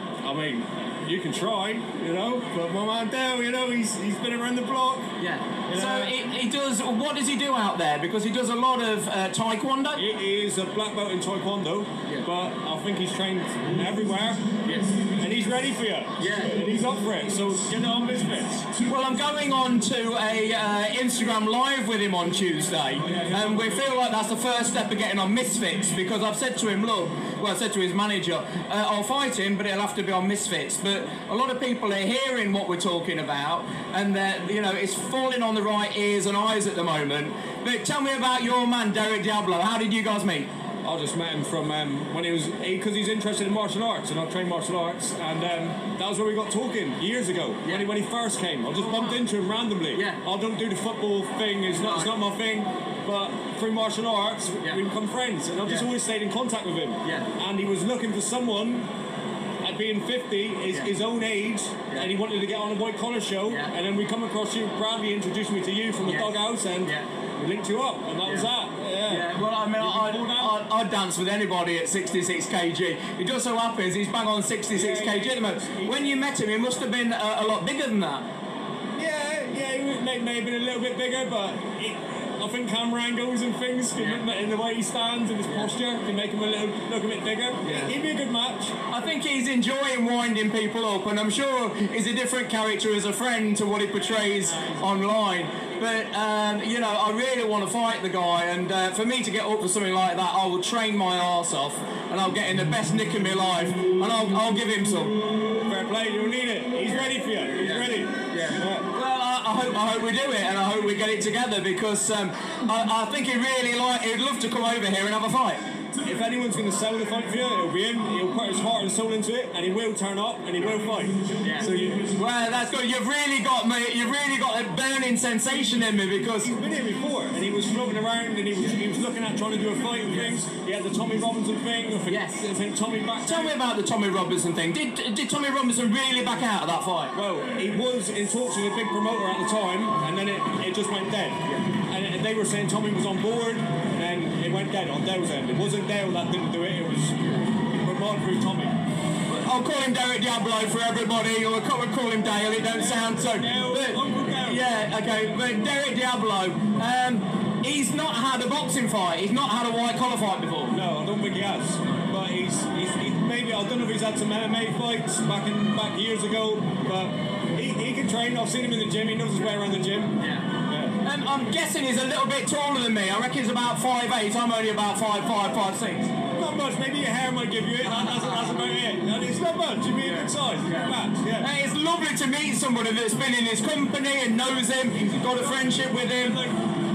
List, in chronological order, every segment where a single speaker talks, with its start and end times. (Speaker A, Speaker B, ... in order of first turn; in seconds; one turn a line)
Speaker A: 0.2-5.1
Speaker B: 5.2-10.0
Speaker A: 5.7-6.1
Speaker A: 10.0-14.4
Speaker B: 14.7-15.1
Speaker A: 15.1-18.7
Speaker B: 16.2-16.6
Speaker B: 18.9-40.5
Speaker A: 40.8-58.8
Speaker B: 48.8-49.2
Speaker B: 49.9-50.2
Speaker B: 51.8-52.2
Speaker B: 55.6-55.9
Speaker B: 57.0-57.3
Speaker A: 59.6-70.5
Speaker B: 66.0-67.1
Speaker B: 69.1-78.2
Speaker A: 74.7-76.1
Speaker A: 79.0-88.7
Speaker B: 84.0-84.2
Speaker B: 88.9-105.2
Speaker A: 105.7-108.9
Speaker B: 107.6-115.6
Speaker A: 116.0-122.1
Speaker B: 121.4-126.5
Speaker A: 126.4-133.6
Speaker B: 132.1-132.5
Speaker B: 133.2-137.2
Speaker A: 137.1-147.2
Speaker A: 147.8-148.8
Speaker B: 149.3-160.7
Speaker A: 152.8-154.7
Speaker A: 160.7-171.0
Speaker B: 170.2-176.1
Speaker A: 176.3-181.5
Speaker B: 177.8-178.7
Speaker B: 180.0-186.4
Speaker A: 185.4-186.6